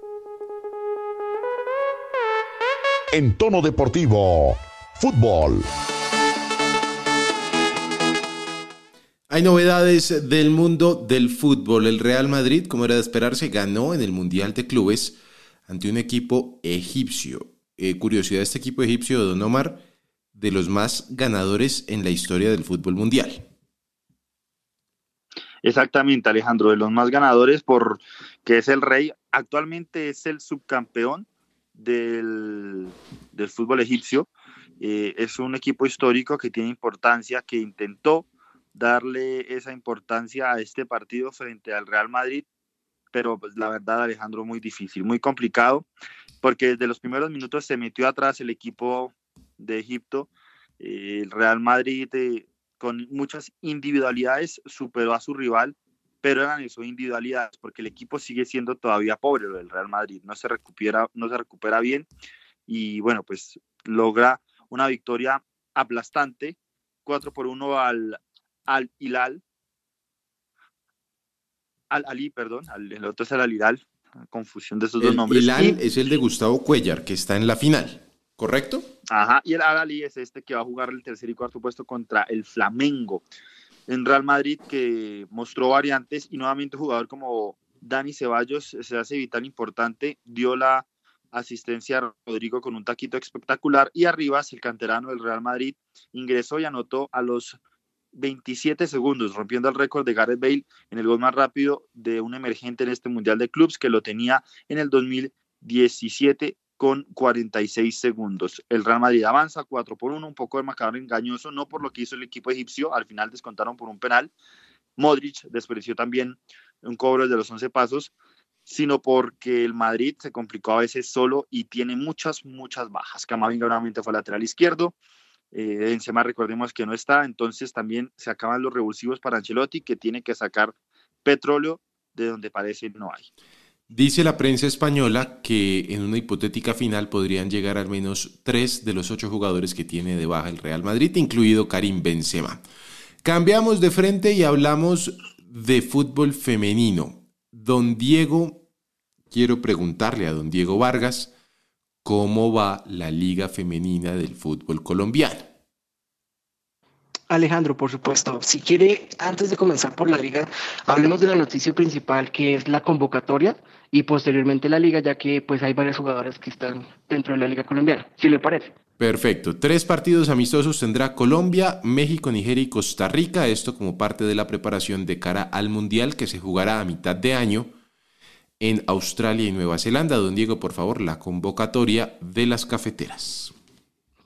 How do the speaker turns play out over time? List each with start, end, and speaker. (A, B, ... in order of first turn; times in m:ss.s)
0:03.1-0:05.6 A
0:09.3-0:19.8 B
0:20.3-0:23.4 B
0:25.6-0:42.4 C
0:43.1-0:45.9 C
0:46.4-1:02.1 C
1:02.7-1:09.4 C
1:11.9-1:15.8 C
1:15.0-1:18.8 B
1:19.1-1:23.2 C
1:23.9-1:37.6 C
1:38.1-1:54.3 C
1:55.0-1:58.1 C
1:58.6-2:05.0 C
2:05.5-2:13.3 C
2:13.9-2:22.6 B
2:23.2-2:28.6 B
2:29.3-2:31.3 B
2:32.0-2:35.5 B
2:37.3-2:48.8 D
2:49.0-2:57.7 B
2:58.6-3:03.5 B